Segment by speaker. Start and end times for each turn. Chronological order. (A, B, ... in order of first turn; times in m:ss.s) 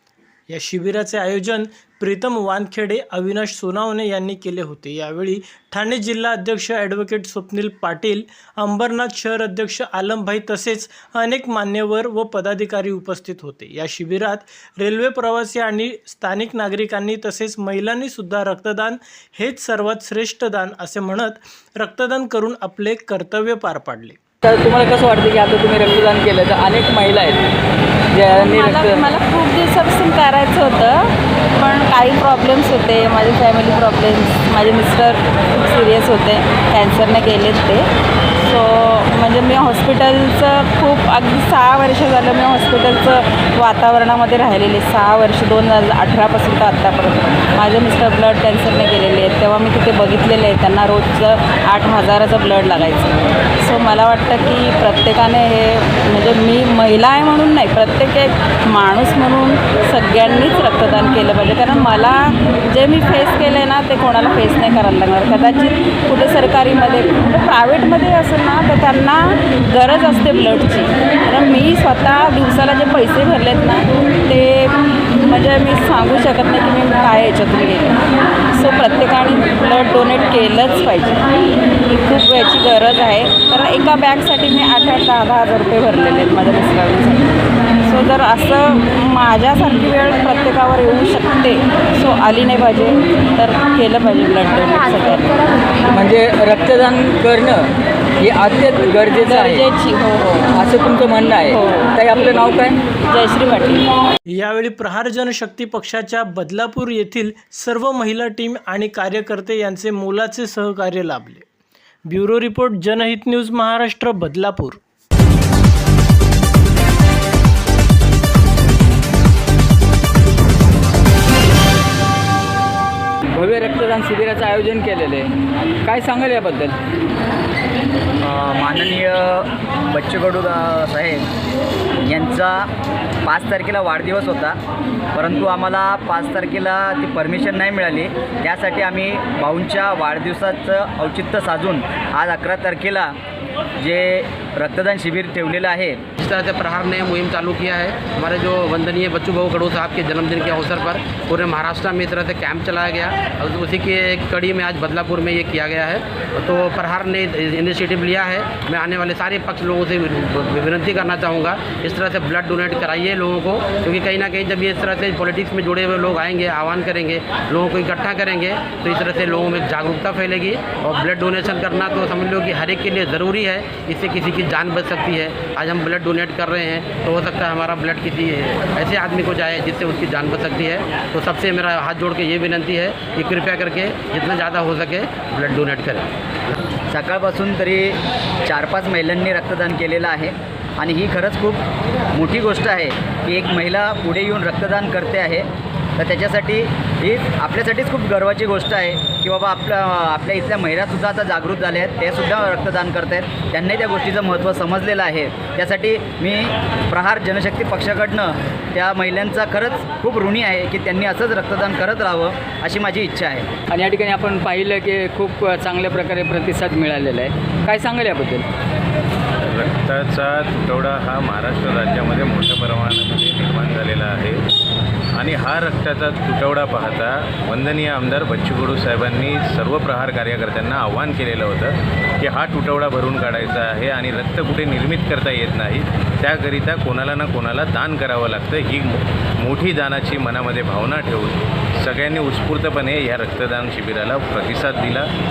0:00.5-0:24.2 A
0:24.4-0:27.4 B
0:28.1-0:29.1 B
0:28.4-0:37.9 C
0:38.4-1:21.2 C
1:21.8-1:35.4 C
1:35.9-1:39.6 B
1:39.2-1:40.5 C
1:40.5-1:42.8 B
1:41.5-1:41.9 C
1:43.1-1:43.9 C
1:44.3-1:51.4 A
1:52.1-1:54.8 A
2:03.3-2:05.3 B
2:05.8-2:06.8 B
2:08.2-2:11.2 D
2:12.0-2:12.7 D
2:13.2-2:14.6 D
2:15.1-2:23.2 D
2:23.8-2:26.0 D
2:26.2-3:06.1 E
3:06.9-3:11.6 D
3:12.1-3:15.5 D
3:16.0-3:33.4 D
3:33.7-3:38.4 B
3:39.5-3:44.4 F
3:45.2-4:05.1 F